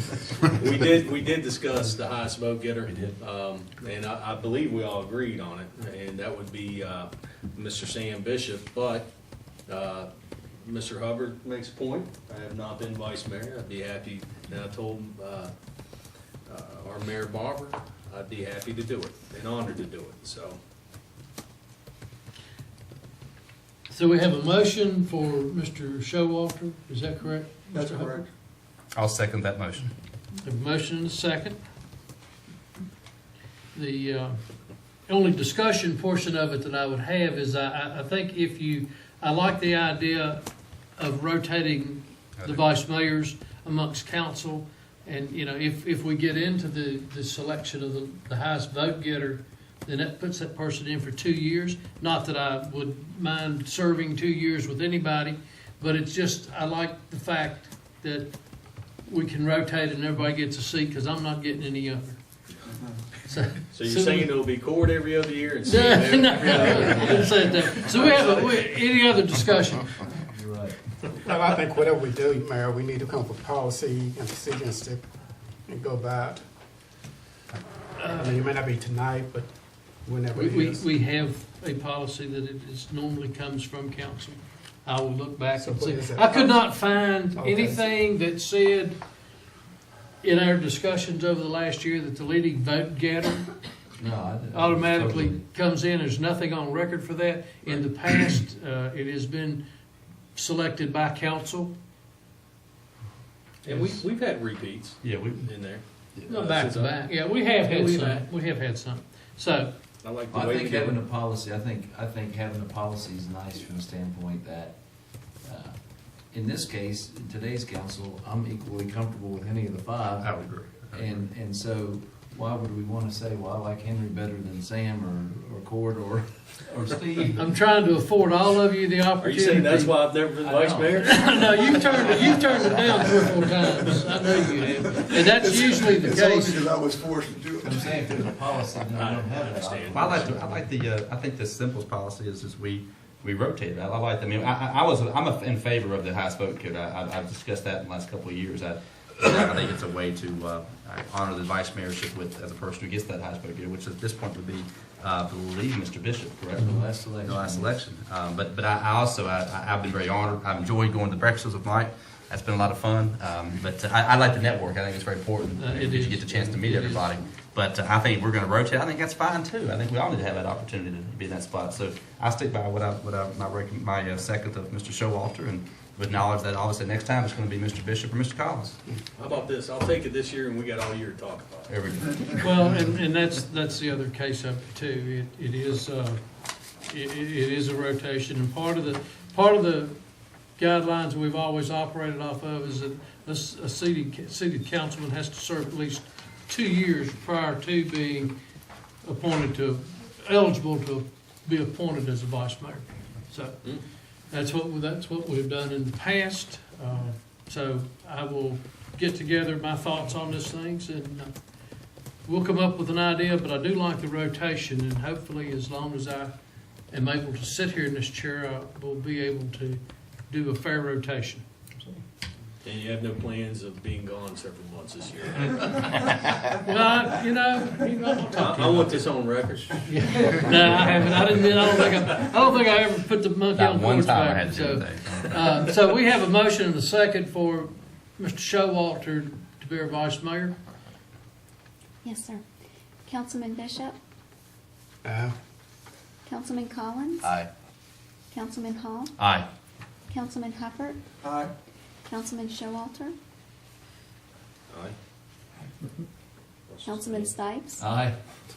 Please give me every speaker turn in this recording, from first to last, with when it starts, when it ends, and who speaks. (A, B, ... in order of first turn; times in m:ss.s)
0:00.4-0:09.1 A
0:09.7-0:15.5 A
0:16.5-0:20.6 A
0:23.9-0:28.2 B
0:27.7-0:28.2 C
0:29.0-0:29.9 D
0:30.4-0:31.6 B
0:33.7-0:34.4 B
0:35.1-0:40.4 B
0:41.0-0:58.4 B
0:59.0-1:02.2 B
1:03.3-1:04.4 B
1:03.7-1:08.6 A
1:05.6-1:10.1 B
1:06.6-1:07.3 E
1:10.2-1:10.8 E
1:11.2-1:15.0 F
1:15.7-1:16.4 F
1:17.6-1:19.5 F
1:18.0-1:18.5 B
1:20.0-1:20.8 F
1:20.4-1:29.0 B
1:25.6-1:27.8 F
1:30.2-1:33.5 B
1:34.0-1:35.5 E
1:34.5-1:39.6 B
1:40.4-1:41.7 B
1:43.7-1:48.3 A
1:43.7-1:44.1 B
1:45.0-1:45.5 D
1:46.3-1:49.7 B
1:50.0-1:51.0 A
1:50.3-1:54.8 E
1:55.4-1:55.8 E
1:56.3-2:00.3 E
2:00.2-2:01.1 D
2:00.9-2:07.5 E
2:07.4-2:10.1 B
2:09.2-2:13.1 A
2:10.4-2:11.0 E
2:11.0-2:16.7 B
2:14.6-2:15.1 E
2:15.2-2:18.2 C
2:17.6-2:20.7 E
2:19.0-2:20.2 A
2:19.9-2:58.8 D
2:36.6-2:37.8 E
2:45.6-2:47.2 B
2:59.2-3:01.7 A
3:01.7-3:02.5 D
3:02.3-3:06.2 B
3:06.8-3:10.0 B
3:10.6-3:18.3 B
3:19.0-3:23.7 B
3:24.3-3:31.4 B
3:32.2-3:36.3 B
3:36.9-3:42.0 B
3:42.6-3:45.8 A
3:45.6-3:49.0 B
3:48.3-3:49.9 A
3:49.8-4:00.6 B
3:53.6-3:55.4 D
4:02.0-4:02.4 G
4:03.1-4:04.0 G
4:05.0-4:05.3 F
4:06.3-4:07.2 G
4:07.2-4:07.5 D
4:08.3-4:09.1 G
4:09.2-4:09.5 D
4:10.1-4:11.0 G
4:11.2-4:11.5 C
4:12.1-4:13.2 G
4:14.7-4:15.0 A
4:16.7-4:17.3 A
4:16.8-4:17.8 G
4:17.8-4:18.2 E